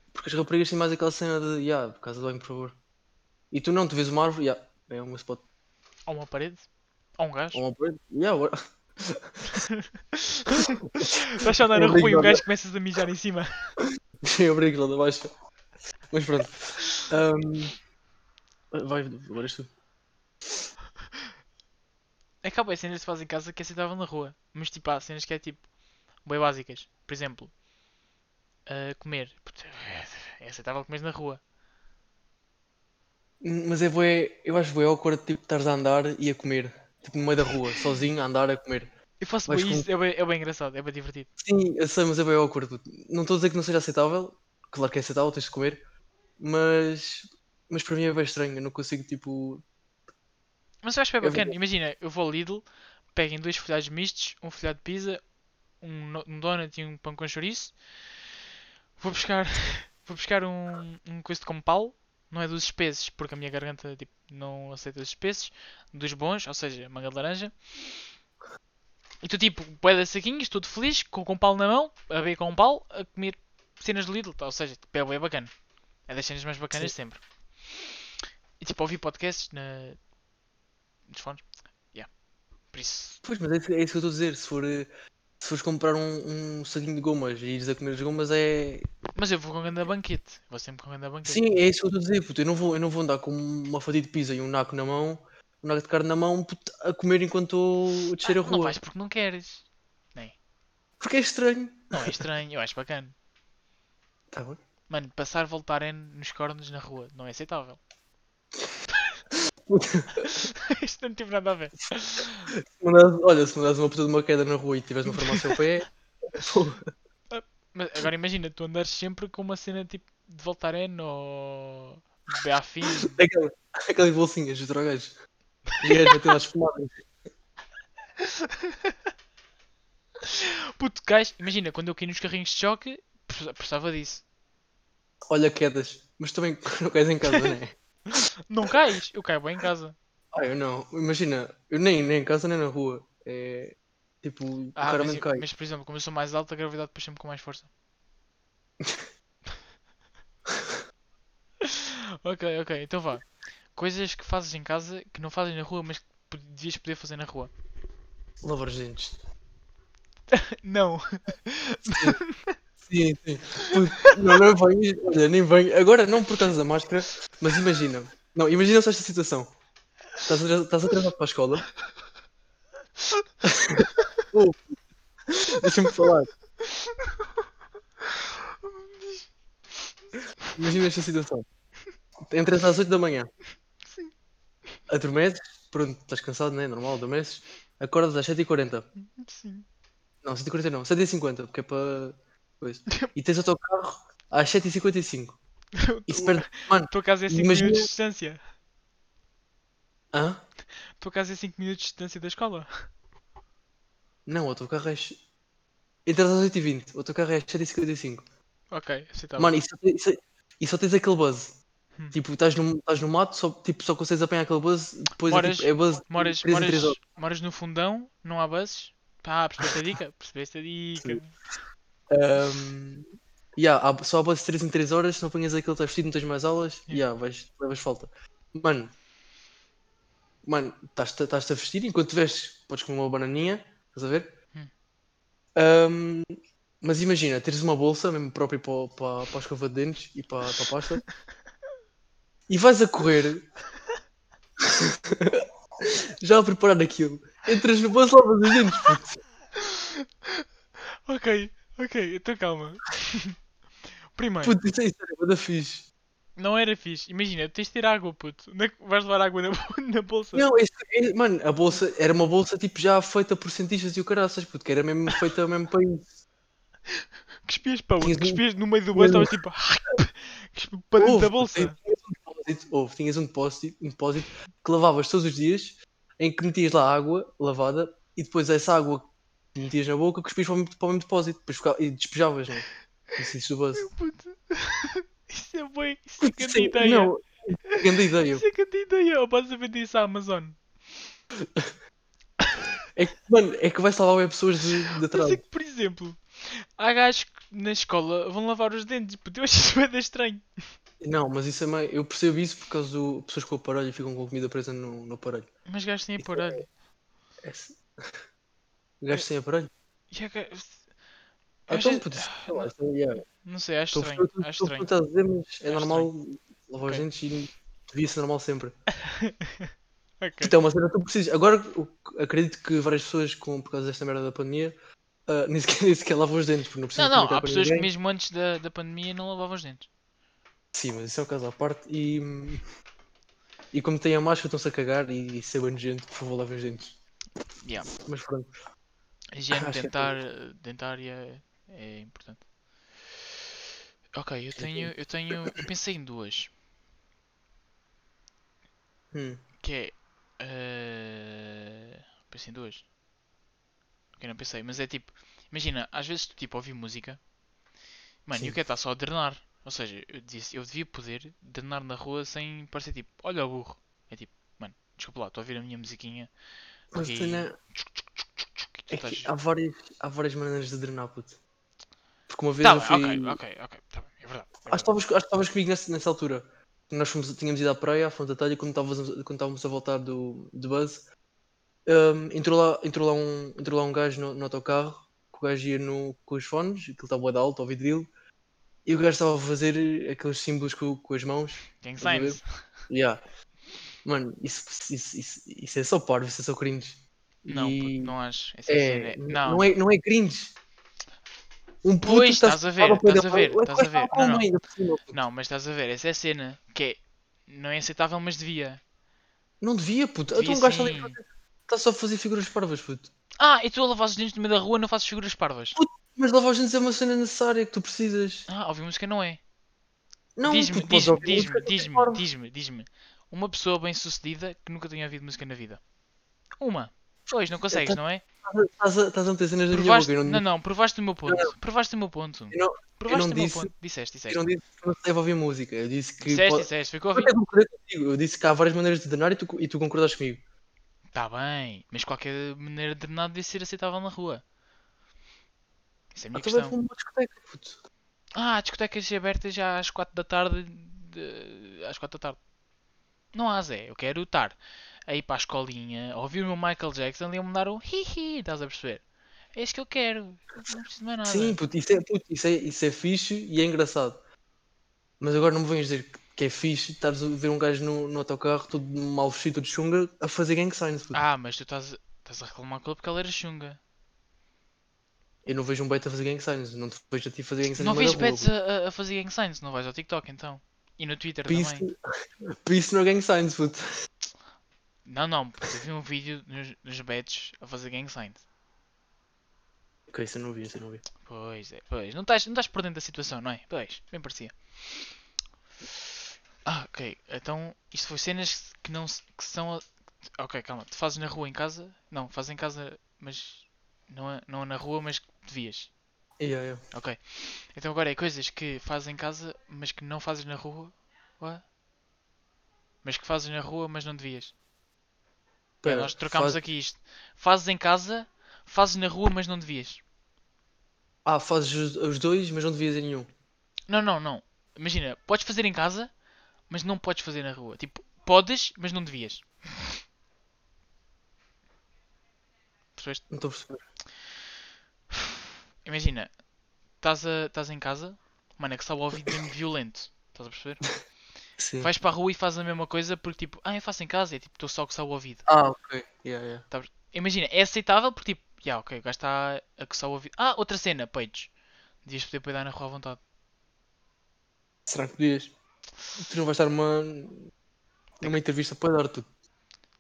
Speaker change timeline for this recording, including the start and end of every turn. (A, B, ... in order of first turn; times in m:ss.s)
0:00.1-0:02.8 A
0:03.5-0:05.4 A
0:06.1-0:06.6 B
0:07.2-0:07.6 B
0:07.5-0:09.6 A
0:09.5-0:13.7 B
0:11.0-0:12.4 A
0:14.2-0:15.3 A
0:16.1-0:17.8 A
0:18.7-0:19.7 A
0:22.4-0:25.6 B
0:26.2-0:27.5 B
0:28.6-0:31.4 B
0:33.4-0:38.9 A
0:39.2-0:41.3 B
0:39.5-0:39.9 A
0:41.4-0:45.8 A
0:46.4-0:49.6 A
0:50.8-0:55.2 B
0:51.2-0:51.5 A
0:55.8-0:57.8 B
0:59.0-1:07.6 B
1:09.2-1:15.5 B
1:16.0-1:17.9 B
1:18.6-1:20.0 B
1:21.1-1:22.1 B
1:22.7-1:23.2 B
1:23.2-1:24.9 A
1:25.4-1:28.9 A
1:29.1-1:31.4 B
1:31.2-1:38.8 A
1:38.2-1:40.4 B
1:41.0-1:42.2 A
1:41.9-1:43.1 B
1:44.3-1:44.6 A
1:44.9-1:47.8 B
1:49.3-1:50.3 A
1:50.2-1:52.5 B
1:52.5-1:56.9 A
1:55.1-1:55.5 B
1:57.3-2:03.2 B
2:02.9-2:05.1 A
2:05.8-2:07.0 A
2:08.2-2:08.9 B
2:10.2-2:14.2 B
2:15.3-2:17.8 A
2:18.1-2:19.9 B
2:20.3-2:25.4 A
2:24.8-2:27.7 B
2:28.8-2:29.1 A
2:30.5-2:30.7 A
2:31.6-2:37.5 B
2:38.4-2:39.2 A
2:40.3-2:42.5 B
2:41.9-2:42.2 A
2:42.8-2:49.5 A
2:43.6-2:44.1 B
2:50.2-2:51.7 A
2:53.4-2:54.7 A
2:55.3-2:56.3 A
2:56.8-2:57.1 B
3:00.5-3:01.4 A
3:02.3-3:03.3 A
3:04.9-3:08.8 A
3:09.2-3:09.6 B
3:10.2-3:15.4 A
3:15.8-3:18.4 B
3:16.1-3:17.9 A
3:20.1-3:20.4 A
3:21.0-3:22.9 B
3:24.2-3:25.2 A
3:26.0-3:28.2 A
3:28.7-3:29.6 B
3:29.4-3:31.6 A
3:32.1-3:37.0 A
3:35.2-3:41.3 B
3:42.1-3:43.0 A
3:43.6-3:48.9 A
3:50.4-3:54.3 A
3:55.6-3:56.3 A
3:56.8-4:01.0 A
4:02.5-4:03.4 A
4:04.6-4:09.2 A
4:09.6-4:10.4 B
4:11.0-4:13.3 B
4:14.1-4:14.6 B
4:14.4-4:15.9 A
4:16.4-4:20.4 B
4:20.3-4:26.1 A
4:27.0-4:31.7 B
4:28.0-4:28.4 A
4:28.9-4:29.3 A
4:31.0-4:43.9 A
4:43.8-4:47.1 B
4:46.2-4:48.4 A
4:47.7-4:50.6 B
4:52.9-4:55.4 A
4:55.1-5:00.4 B
5:01.0-5:05.5 A
5:05.7-5:06.7 B
5:06.2-5:06.6 A
5:07.4-5:08.2 A
5:09.0-5:09.7 A
5:10.1-5:10.8 B
5:11.7-5:12.7 B
5:11.7-5:13.2 A
5:13.4-5:14.9 B
5:13.9-5:18.8 A
5:15.6-5:16.1 B
5:19.1-5:20.5 B
5:20.4-5:24.7 A
5:25.3-5:27.9 A
5:26.9-5:29.9 B
5:30.7-5:32.6 A
5:33.7-5:36.9 A
5:37.6-5:37.9 B
5:37.9-5:38.5 A
5:39.3-5:42.4 B
5:39.5-5:40.2 A
5:44.1-5:46.5 B
5:44.6-5:44.9 A
5:49.1-5:49.4 A
5:49.6-5:52.8 B
5:54.2-5:57.2 B
5:58.2-6:06.3 B
6:06.9-6:07.5 B
6:06.9-6:07.5 A
6:08.4-6:09.3 B
6:08.9-6:11.4 A
6:12.3-6:13.4 A
6:12.6-6:14.9 B
6:14.7-6:21.0 A
6:21.8-6:28.1 A
6:28.8-6:33.2 A
6:31.8-6:32.4 B
6:34.0-6:38.1 A
6:37.5-6:39.7 B
6:38.7-6:40.5 A
6:41.8-6:45.2 A
6:42.0-6:44.5 B
6:45.1-6:48.8 B
6:49.6-6:53.1 A
6:50.3-6:51.2 B
6:53.4-6:55.8 B
6:55.8-6:58.5 A
6:58.5-6:59.4 B
7:00.4-7:02.2 A
7:00.4-7:05.8 B
7:06.6-7:08.2 B
7:07.7-7:10.4 A
7:09.7-7:14.4 B
7:11.3-7:11.5 A
7:12.5-7:13.7 A
7:14.3-7:20.4 A
7:16.2-7:17.3 B
7:21.1-7:24.4 B
7:26.1-7:26.8 B
7:26.3-7:27.8 A
7:28.3-7:32.4 B
7:33.3-7:39.0 B
7:39.5-7:41.6 B
7:41.2-7:44.2 A
7:45.2-7:51.2 A
7:51.1-7:53.8 B
7:55.4-7:58.5 A
7:57.6-8:01.8 B
8:01.5-8:01.9 A
8:02.5-8:03.8 A
8:05.0-8:08.4 B
8:10.1-8:11.0 A
8:11.2-8:15.1 B
8:16.6-8:25.9 B
8:26.4-8:26.8 A
8:26.9-8:31.6 B
8:33.0-8:34.5 B
8:35.8-8:36.6 A
8:35.8-8:40.0 B
8:41.2-8:43.3 A
8:43.9-8:46.1 B
8:46.7-8:49.9 B
8:53.0-8:53.2 B
8:53.3-8:53.8 A
8:55.1-8:56.3 B
8:57.0-9:00.9 B
9:01.6-9:01.9 A
9:01.8-9:05.4 B
9:05.5-9:06.6 A
9:06.7-9:11.5 B
9:12.0-9:13.2 B
9:14.9-9:15.5 A
9:16.2-9:17.5 A
9:18.2-9:19.3 A